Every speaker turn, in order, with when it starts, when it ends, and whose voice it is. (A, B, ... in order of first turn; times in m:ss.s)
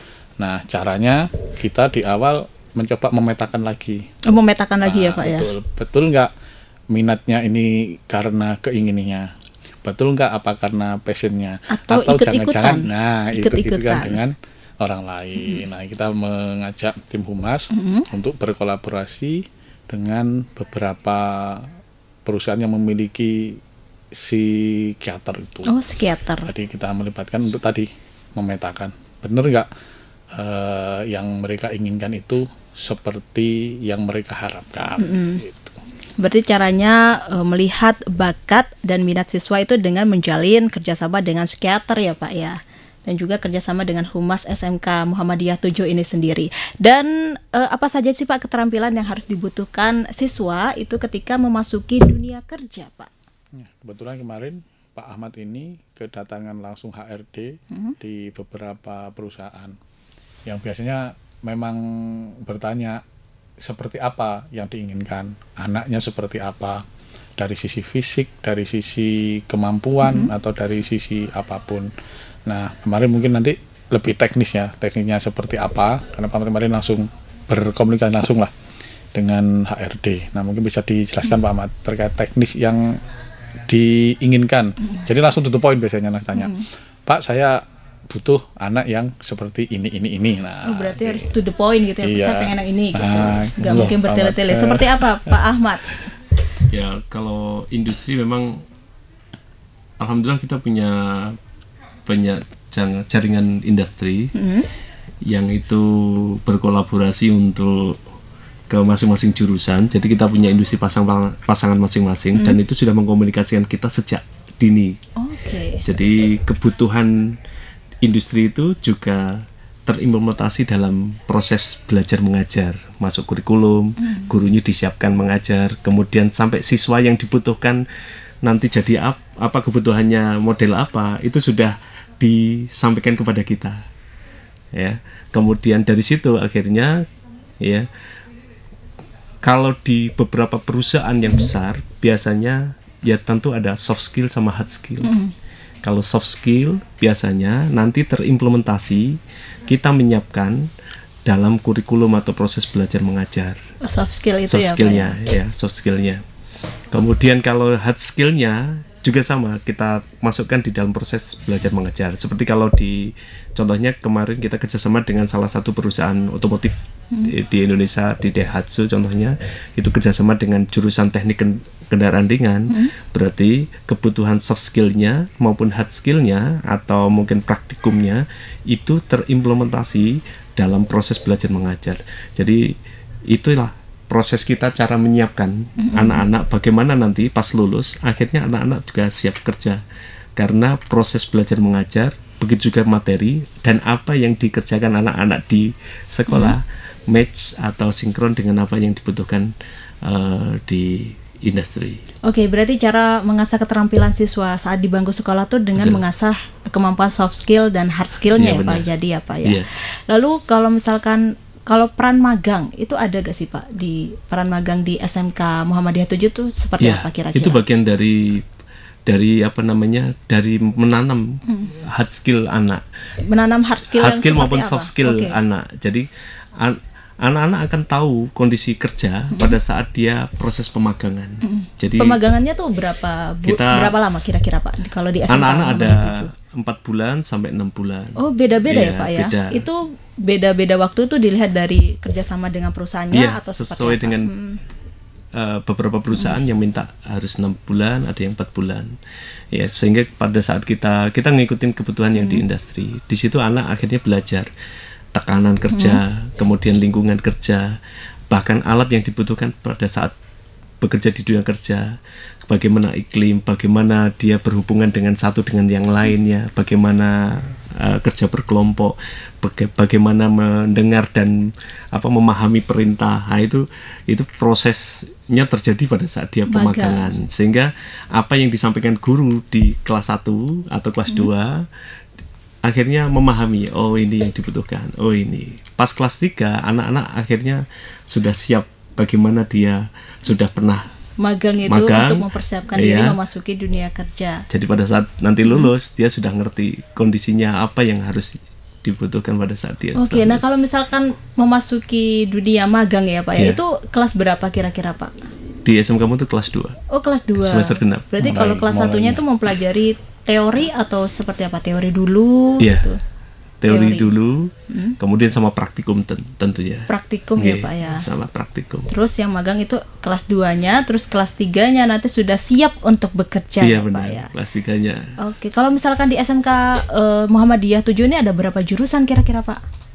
0:00.4-0:04.1 A
0:04.3-0:05.5 B
0:04.8-0:06.3 A
0:06.9-0:09.3 A
0:09.8-0:21.7 A
0:11.7-0:14.2 B
0:17.7-0:18.1 B
0:22.3-0:23.6 A
0:24.1-0:25.8 A
0:25.7-0:26.5 B
0:26.4-0:29.7 A
0:30.3-0:35.8 A
0:35.0-0:35.4 B
0:36.2-0:53.1 B
0:53.6-0:59.8 A
0:57.7-0:58.0 B
1:00.5-1:03.0 A
1:03.6-1:06.8 A
1:07.4-1:11.9 A
1:10.0-1:10.3 B
1:12.5-1:18.5 A
1:19.1-1:23.0 A
1:23.7-1:31.3 A
1:26.4-1:26.7 B
1:30.6-1:35.8 B
1:32.0-1:35.0 A
1:36.7-1:38.6 C
1:40.0-1:41.4 C
1:42.1-1:44.3 C
1:44.4-1:44.7 B
1:45.2-1:48.0 C
1:48.7-1:55.0 C
1:55.2-1:55.8 B
1:55.8-1:57.4 C
1:58.0-2:07.8 C
2:04.0-2:04.3 B
2:08.4-2:13.8 C
2:14.7-2:17.1 C
2:17.6-2:17.9 C
2:19.4-2:25.1 C
2:25.0-2:25.3 B
2:25.8-2:30.7 C
2:31.2-2:33.6 C
2:33.8-2:35.2 B
2:34.4-2:36.2 C
2:36.9-3:02.8 C
3:03.3-3:09.8 C
3:05.8-3:06.2 B
3:10.4-3:22.0 C
3:16.3-3:16.6 B
3:22.2-3:37.6 B
3:28.4-3:28.9 C
3:36.8-3:38.5 C
3:39.1-3:42.8 C
3:41.5-3:41.7 B
3:43.2-3:45.4 B
3:43.9-3:52.2 C
3:49.3-3:49.6 B
3:51.4-3:56.3 B
3:53.4-3:54.0 C
3:55.3-3:59.6 C
3:58.2-4:04.6 B
4:03.1-4:04.3 C
4:05.4-4:09.0 C
4:06.1-4:06.4 B
4:09.5-4:14.5 C
4:12.2-4:12.4 B
4:15.1-4:17.8 C
4:15.7-4:16.0 B
4:18.3-4:20.1 C
4:20.8-4:22.0 C
4:22.5-4:41.7 C
4:36.5-4:37.1 B
4:42.6-4:50.9 C
4:51.2-4:54.4 B
4:51.7-4:53.2 C
4:54.5-5:00.5 C
4:55.4-4:55.7 B
5:00.0-5:05.1 B
5:05.6-5:06.8 C
5:06.9-5:13.0 B
5:07.4-5:08.5 C
5:08.2-5:09.2 A
5:12.6-5:12.9 C
5:13.6-5:18.9 C
5:13.7-5:14.1 B
5:14.7-5:15.0 B
5:16.9-5:18.0 B
5:18.9-5:24.3 B
5:23.6-5:25.1 C
5:25.2-5:29.6 B